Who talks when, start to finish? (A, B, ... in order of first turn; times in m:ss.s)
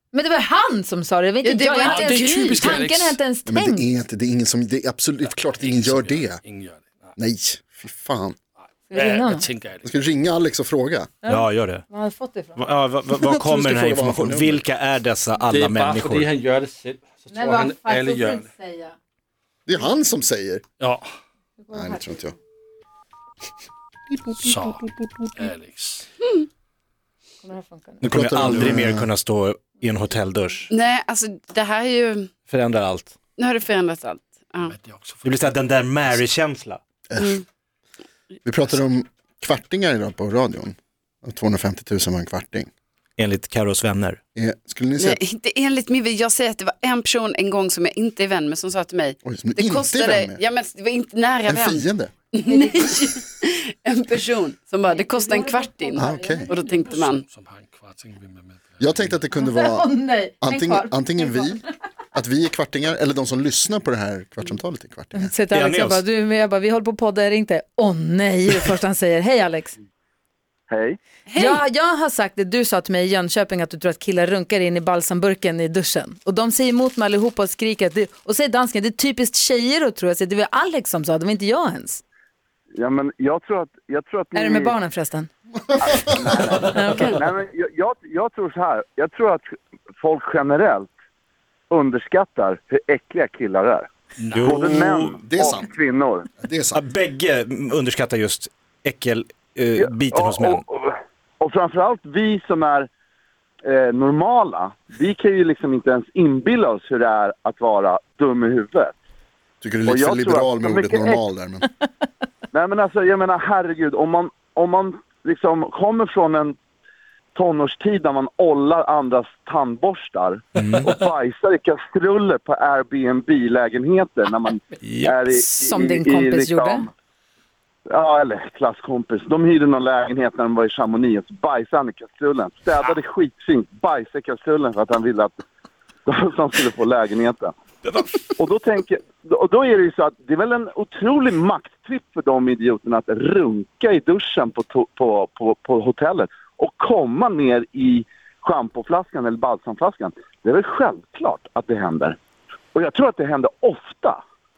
0:00.1-0:03.8 A
0:01.4-0:03.2 B
0:01.8-0:02.4 C
0:03.4-0:06.4 D
0:05.2-0:07.1 B
0:07.2-0:08.4 D
0:08.8-0:09.9 B
0:08.9-0:09.5 A
0:09.8-0:11.1 D
0:11.2-0:12.7 A
0:11.2-0:11.8 E
0:12.6-0:16.3 E
0:13.1-0:14.6 D
0:15.5-0:18.5 B
0:17.3-0:19.0 A
0:19.6-0:20.6 D
0:20.8-0:21.1 B
0:21.6-0:22.2 A
0:21.7-0:22.3 D
0:24.2-0:25.2 D
0:24.3-0:26.0 B
0:27.4-0:28.1 A
0:28.0-0:30.7 E
0:28.0-0:29.1 D
0:30.7-0:32.3 C
0:32.5-0:33.1 E
0:33.4-0:34.8 C
0:34.7-0:35.5 B
0:35.2-0:36.8 E
0:37.1-0:37.4 D
0:37.2-0:37.4 C
0:38.4-0:42.7 D
0:43.2-0:44.2 E
0:44.4-0:45.2 D
0:45.0-0:57.2 C
0:49.2-0:50.4 D
0:51.5-0:52.1 D
0:52.4-0:52.9 A
0:54.8-0:56.8 A
0:56.0-0:56.5 D
0:56.8-0:59.2 B
0:58.8-1:05.3 D
0:59.3-1:01.7 A
1:05.1-1:09.8 A
1:05.5-1:06.0 E
1:10.7-1:11.0 F
1:11.3-1:11.6 C
1:11.3-1:22.0 A
1:22.8-1:24.7 F
1:24.3-1:25.3 A
1:25.8-1:26.4 D
1:25.9-1:29.5 F
1:26.7-1:27.1 A
1:30.0-1:30.9 F
1:31.7-1:33.9 F
1:34.2-1:34.5 B
1:34.3-1:35.1 E
1:34.4-1:36.3 F
1:35.2-1:35.7 D
1:36.4-1:36.8 D
1:36.7-1:40.6 E
1:39.8-1:42.9 F
1:43.6-1:48.9 F
1:49.6-1:51.6 D
1:49.8-1:51.2 F
1:52.5-1:56.5 F
1:57.3-2:06.9 F
2:00.6-2:00.9 E
2:04.8-2:05.2 E
2:05.3-2:06.9 A
2:07.9-2:15.3 F
2:16.0-2:17.5 F
2:17.8-2:18.1 E
2:18.4-2:32.2 F
2:32.7-2:34.2 F